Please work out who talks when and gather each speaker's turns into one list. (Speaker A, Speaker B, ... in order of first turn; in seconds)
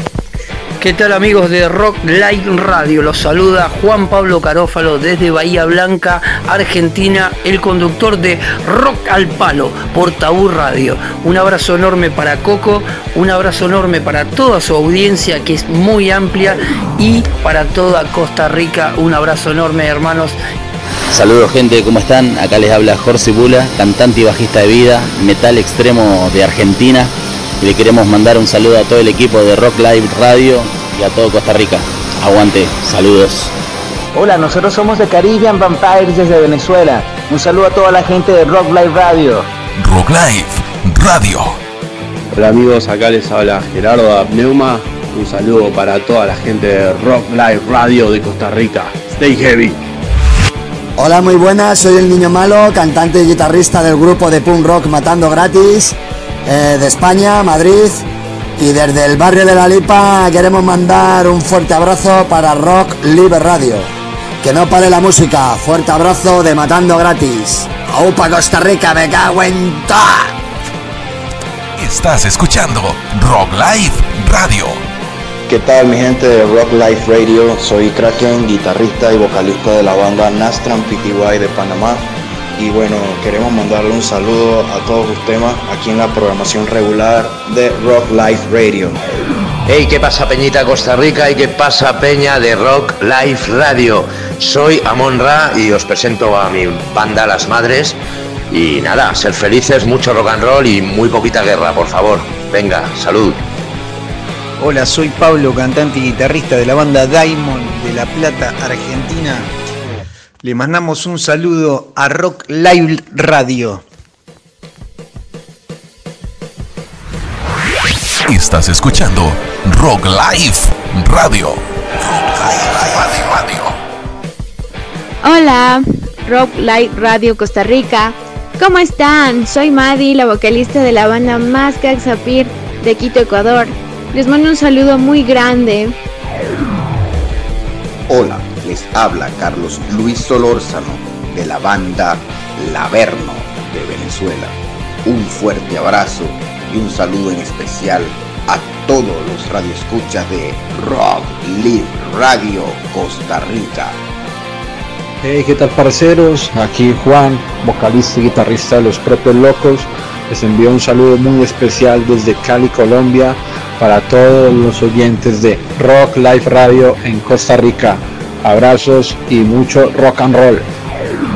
Speaker A: 0.8-20.4
Speaker B: 21.1-33.5
Speaker C: 34.1-39.5
Speaker D: 39.8-41.5, 71.8-74.8, 118.3-121.6, 122.1-123.6
Speaker E: 42.3-49.7
Speaker F: 51.0-58.0, 58.6-63.9, 64.4-70.3
Speaker G: 75.5-82.0, 82.6-89.0
Speaker H: 89.7-98.0, 98.5-103.4
Speaker I: 104.6-109.5, 110.4-113.8
Speaker J: 125.2-135.9
Speaker K: 138.1-154.0
Speaker L: 155.2-170.7